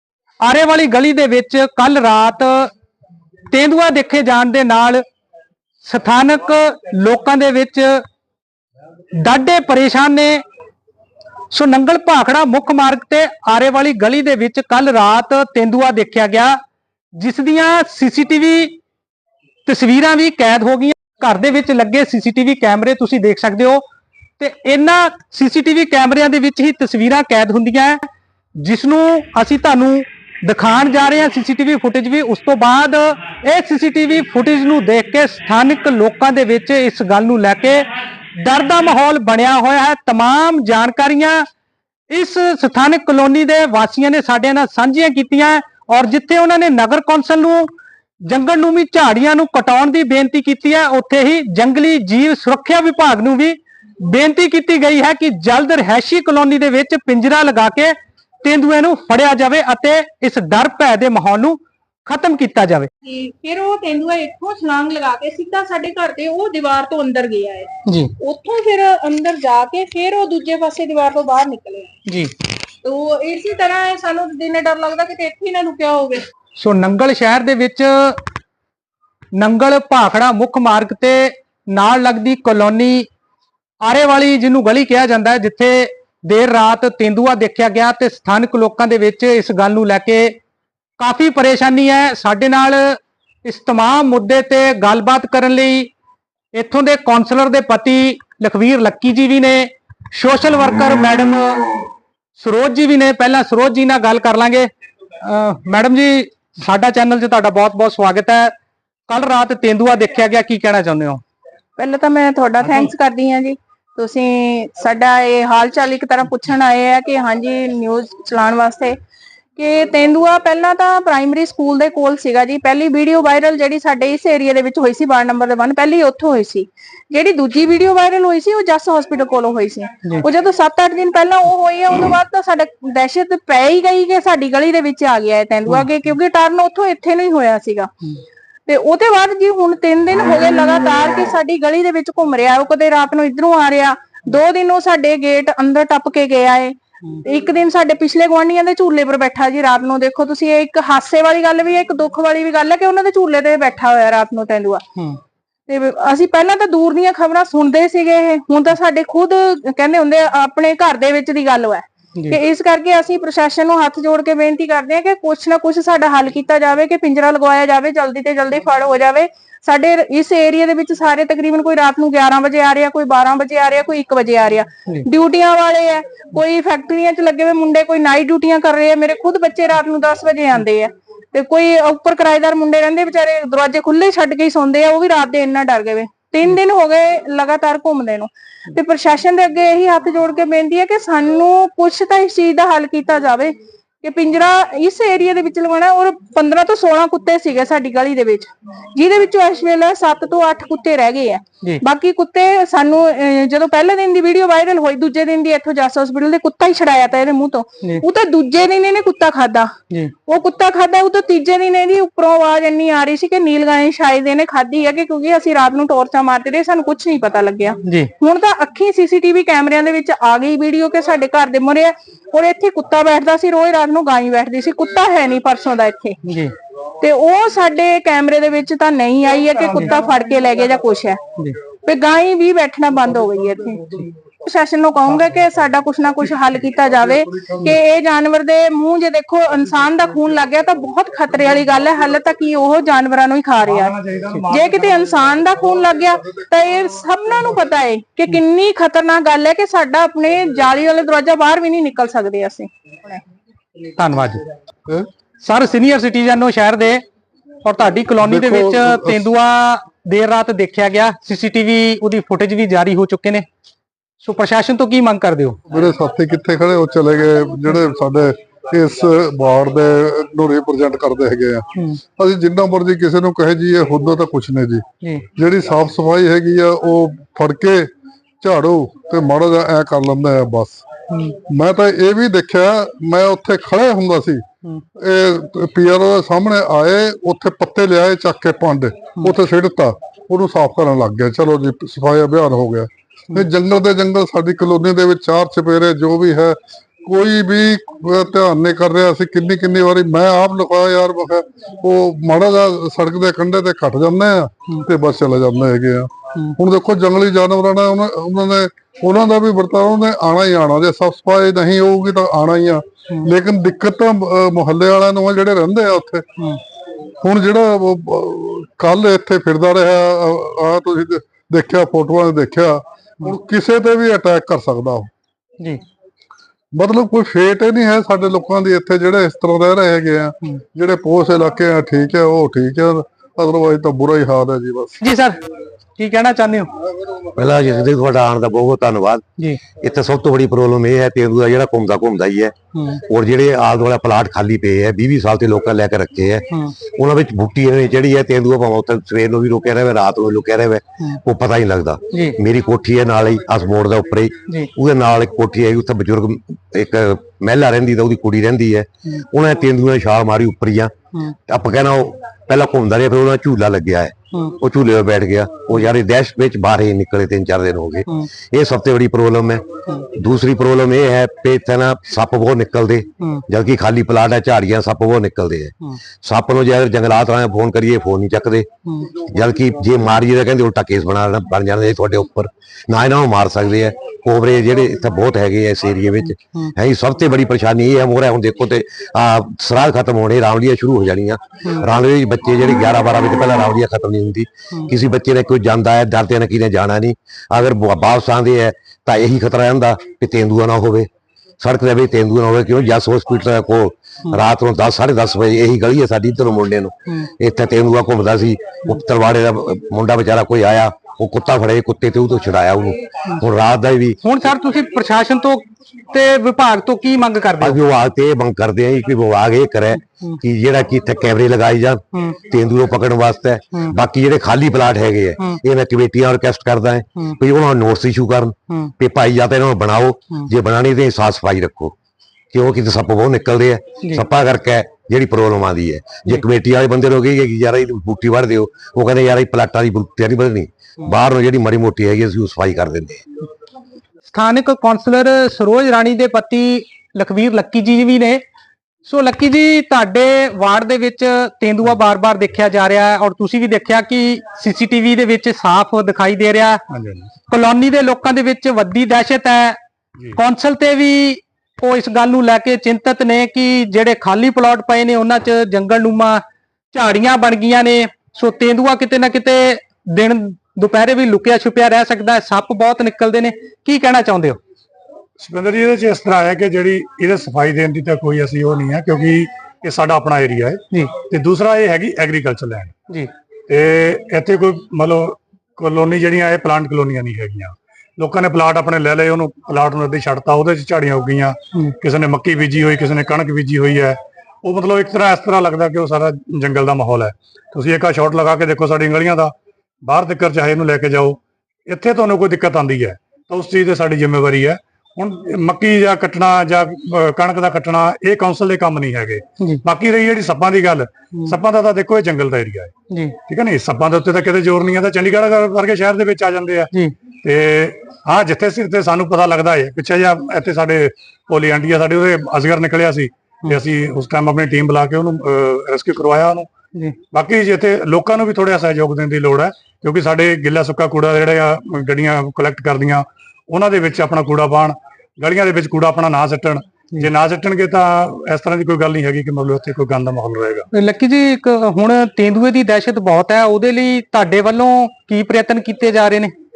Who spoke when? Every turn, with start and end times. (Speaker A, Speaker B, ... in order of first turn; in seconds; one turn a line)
Speaker A: 0.4-2.7
Speaker A: 3.5-5.0
Speaker A: 5.8-8.0
Speaker A: 9.2-10.4
Speaker A: 11.5-16.6
Speaker A: 17.2-18.8
Speaker A: 19.7-23.8
Speaker A: 24.4-28.0
Speaker A: 28.6-41.4
Speaker A: 42.1-47.7
Speaker A: 48.2-62.9
Speaker B: 63.0-72.0
Speaker A: 67.9-68.1
Speaker A: 72.1-72.3
Speaker B: 72.8-76.3
Speaker A: 76.6-78.2
Speaker A: 79.3-83.1
Speaker A: 83.8-90.3
Speaker A: 91.0-95.9
Speaker A: 96.5-101.7
Speaker A: 102.4-104.7
Speaker A: 105.2-108.5
Speaker A: 109.1-111.2
Speaker B: 111.8-119.0
Speaker B: 119.6-137.9
Speaker B: 138.7-154.8
Speaker B: 155.7-209.7
Speaker B: 210.3-226.2
Speaker A: 217.8-218.1
Speaker A: 226.2-226.5
Speaker B: 227.0-231.2
Speaker B: 231.8-253.2
Speaker C: 243.6-245.4
Speaker A: 254.0-254.4
Speaker A: 255.4-257.0
Speaker A: 257.6-263.5
Speaker D: 258.2-259.2
Speaker A: 264.2-265.6
Speaker D: 265.7-274.8
Speaker D: 275.4-277.9
Speaker D: 278.4-280.8
Speaker A: 281.1-281.4
Speaker D: 281.5-284.4
Speaker D: 285.0-316.2
Speaker D: 317.2-325.1
Speaker D: 326.7-335.0
Speaker A: 335.0-335.4
Speaker A: 336.0-336.7
Speaker E: 337.4-339.2
Speaker E: 339.8-342.5
Speaker A: 342.7-343.0
Speaker E: 343.1-360.9
Speaker A: 352.1-352.4
Speaker E: 361.5-378.7
Speaker A: 378.9-379.2
Speaker E: 379.2-401.1
Speaker E: 401.6-414.2
Speaker A: 414.2-417.8
Speaker E: 417.6-431.9
Speaker A: 420.0-420.4
Speaker A: 422.1-422.4
Speaker E: 432.5-443.2
Speaker A: 444.3-448.4
Speaker A: 449.1-456.8
Speaker C: 456.9-457.3
Speaker A: 457.5-459.8
Speaker A: 460.4-474.6
Speaker C: 475.4-482.9
Speaker C: 483.7-512.9
Speaker A: 513.1-513.4
Speaker C: 513.5-516.9
Speaker C: 517.4-526.7
Speaker C: 527.3-540.9
Speaker A: 540.9-546.5